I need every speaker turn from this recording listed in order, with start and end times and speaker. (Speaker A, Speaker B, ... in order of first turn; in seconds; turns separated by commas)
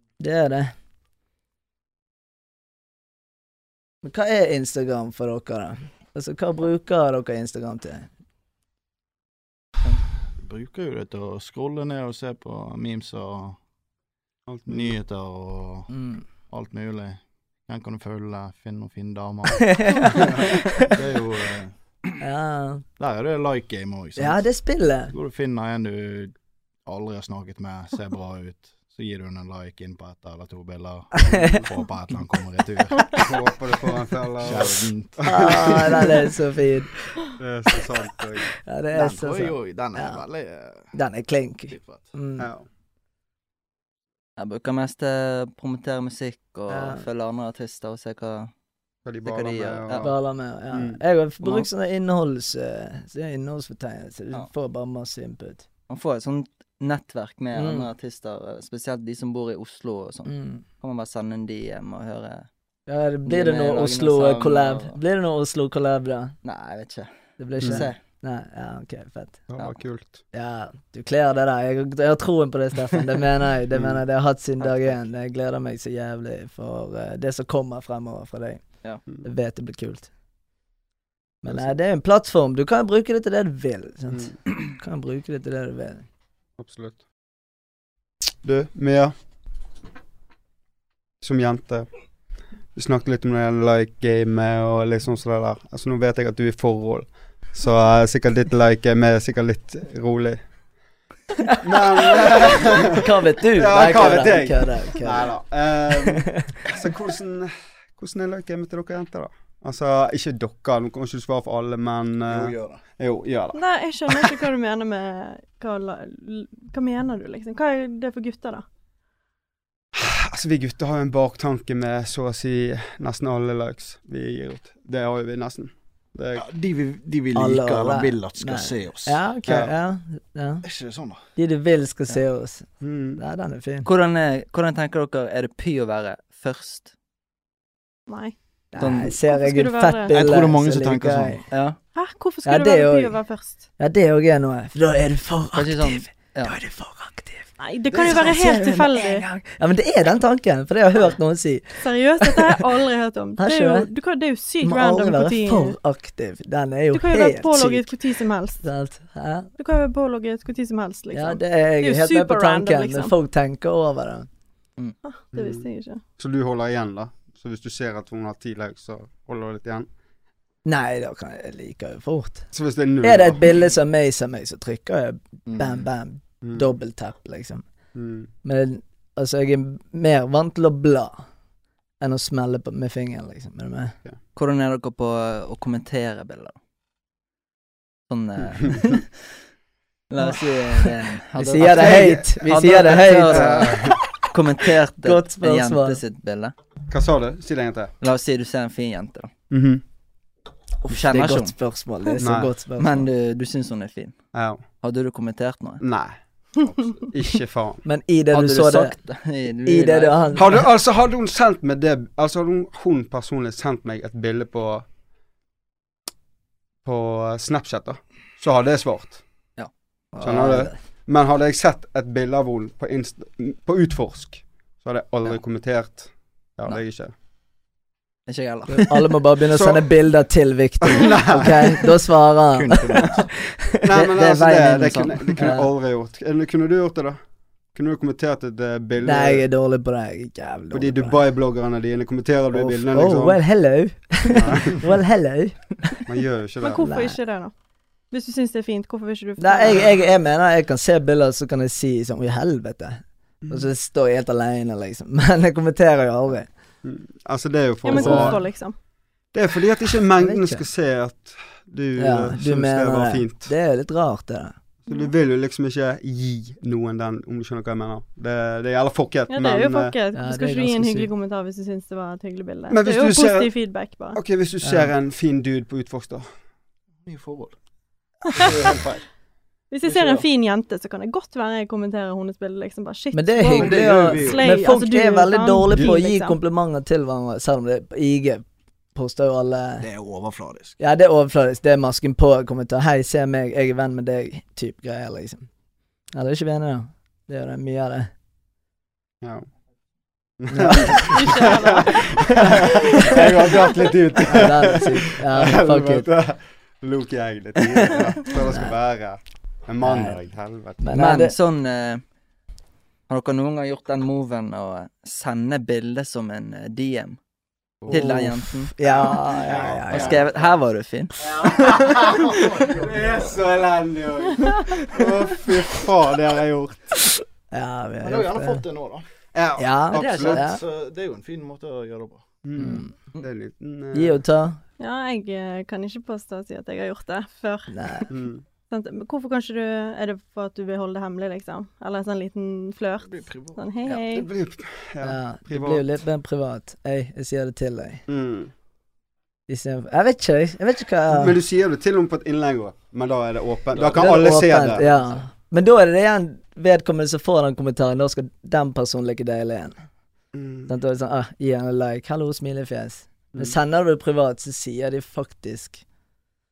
Speaker A: 0.2-0.7, Speaker A: 4.0-8.1, Speaker B: 10.4-13.6, Speaker C: 14.5-14.9, Speaker B: 14.7-21.8, Speaker A: 15.9-16.2, Speaker A: 19.7-20.9, Speaker A: 22.2-22.9, Speaker B: 23.0-24.4, Speaker A: 24.2-25.1, Speaker B: 25.1-33.1, Speaker A: 31.1-31.7, Speaker C: 31.3-31.6, Speaker C: 33.2-36.1, Speaker B: 34.4-36.0, Speaker A: 35.3-36.9, Speaker C: 37.4-38.5, Speaker A: 38.6-40.2, Speaker B: 38.9-40.9, Speaker A: 40.9-42.5, Speaker B: 41.7-42.1, Speaker C: 42.4-42.7, Speaker D: 44.4-48.5, Speaker A: 46.7-47.1, Speaker C: 49.1-50.2, Speaker D: 49.2-50.1, Speaker A: 50.0-55.6, Speaker C: 50.7-51.0, Speaker D: 55.9-62.5, Speaker A: 57.5-57.9, Speaker A: 60.3-60.6, Speaker A: 62.9-66.3, Speaker D: 63.3-65.0, Speaker D: 66.4-67.1, Speaker A: 67.4-69.5, Speaker D: 67.6-68.0, Speaker C: 69.5-70.2, Speaker A: 70.3-78.6, Speaker A: 79.2-80.1, Speaker A: 81.4-86.0, Speaker C: 86.6-87.0, Speaker C: 88.4-89.1, Speaker C: 91.2-91.9, Speaker C: 92.8-100.4, Speaker C: 101.5-114.4, Speaker A: 102.8-105.3, Speaker A: 106.0-106.5, Speaker B: 112.3-112.8, Speaker E: 113.5-118.7, Speaker C: 119.9-126.5, Speaker B: 126.3-129.2, Speaker A: 127.3-130.7, Speaker C: 129.4-129.7, Speaker B: 130.6-131.2, Speaker A: 131.4-133.9, Speaker C: 132.8-133.2, Speaker D: 133.8-136.9, Speaker E: 138.1-138.3, Speaker A: 138.7-141.5, Speaker D: 138.8-139.1, Speaker E: 139.1-140.2, Speaker B: 140.1-141.4, Speaker D: 141.5-141.8, Speaker E: 141.9-143.6, Speaker A: 142.4-143.2, Speaker A: 143.8-152.6, Speaker D: 145.6-146.6, Speaker E: 147.6-149.2, Speaker E: 151.8-155.8, Speaker A: 153.4-153.9, Speaker A: 154.6-159.5, Speaker E: 156.9-158.7, Speaker E: 159.6-163.1, Speaker A: 161.1-164.3, Speaker E: 165.1-166.0, Speaker C: 165.3-165.7, Speaker C: 166.2-169.9, Speaker A: 170.7-172.5, Speaker C: 172.5-173.5, Speaker A: 173.0-177.6, Speaker B: 175.5-175.9, Speaker C: 176.4-176.7, Speaker C: 177.9-178.3, Speaker A: 178.4-181.2, Speaker A: 182.0-184.0, Speaker D: 184.3-186.6, Speaker D: 188.1-189.2, Speaker D: 190.1-196.5, Speaker A: 190.2-194.0, Speaker C: 191.6-192.3, Speaker C: 193.3-194.0, Speaker A: 195.0-196.0, Speaker C: 196.9-197.9, Speaker D: 198.0-199.3, Speaker C: 199.5-199.8, Speaker A: 200.8-203.1, Speaker D: 200.9-201.5, Speaker C: 202.2-202.5, Speaker D: 202.8-204.2, Speaker C: 204.3-204.6, Speaker D: 204.8-205.8, Speaker C: 205.8-206.2, Speaker B: 206.7-207.0, Speaker C: 207.0-207.8, Speaker A: 207.8-209.0, Speaker D: 208.3-210.5, Speaker A: 209.7-210.6, Speaker C: 210.4-214.9, Speaker C: 216.8-219.2, Speaker A: 220.1-220.8, Speaker C: 220.2-227.1, Speaker D: 228.3-229.2, Speaker A: 228.7-233.2, Speaker C: 229.5-229.8, Speaker C: 230.8-231.9, Speaker B: 232.5-233.3, Speaker C: 233.8-237.2, Speaker D: 233.9-235.6, Speaker A: 235.4-235.7, Speaker C: 237.7-239.5, Speaker A: 239.0-241.2, Speaker C: 240.7-243.4, Speaker A: 242.5-246.0, Speaker C: 244.3-244.9, Speaker C: 246.1-246.8, Speaker E: 246.6-247.5, Speaker A: 246.8-247.2, Speaker E: 248.1-249.9, Speaker A: 249.4-256.5, Speaker C: 253.4-253.7, Speaker C: 256.8-258.6, Speaker E: 257.9-258.8, Speaker A: 257.9-258.4, Speaker C: 259.3-263.5, Speaker A: 260.2-260.6, Speaker A: 262.0-264.6, Speaker C: 264.9-269.9, Speaker E: 269.3-274.2, Speaker A: 270.1-271.1, Speaker C: 272.7-273.6, Speaker C: 274.1-276.3, Speaker A: 274.6-274.9, Speaker B: 277.1-277.6, Speaker E: 278.3-278.8, Speaker B: 278.4-278.9, Speaker E: 279.7-286.4, Speaker B: 279.9-280.2, Speaker A: 283.1-289.9, Speaker B: 283.5-284.5, Speaker B: 289.8-290.8, Speaker A: 290.8-295.5, Speaker A: 296.1-298.1, Speaker C: 300.4-310.8, Speaker A: 300.6-301.0, Speaker E: 301.0-302.2, Speaker A: 304.2-306.1, Speaker A: 308.5-308.8, Speaker A: 309.8-310.2, Speaker A: 310.8-311.4, Speaker D: 310.9-312.0, Speaker D: 313.1-317.2, Speaker D: 317.9-318.7, Speaker A: 317.9-320.2, Speaker C: 318.9-320.1, Speaker B: 319.4-320.2, Speaker D: 319.9-321.3, Speaker C: 321.3-327.0, Speaker B: 322.1-323.3, Speaker A: 327.5-328.6, Speaker B: 328.0-329.0, Speaker C: 329.3-330.5, Speaker A: 329.6-330.6, Speaker B: 330.0-332.2, Speaker C: 332.4-334.2, Speaker A: 332.6-332.9, Speaker A: 333.9-334.6, Speaker E: 334.8-338.1, Speaker A: 337.7-338.1, Speaker C: 338.1-338.4, Speaker E: 338.7-344.3, Speaker B: 343.0-343.6, Speaker C: 344.1-345.9, Speaker A: 345.0-348.0, Speaker C: 348.1-348.5, Speaker A: 349.5-351.4, Speaker C: 351.1-354.8, Speaker A: 353.9-359.8, Speaker C: 360.3-360.7, Speaker A: 360.7-365.8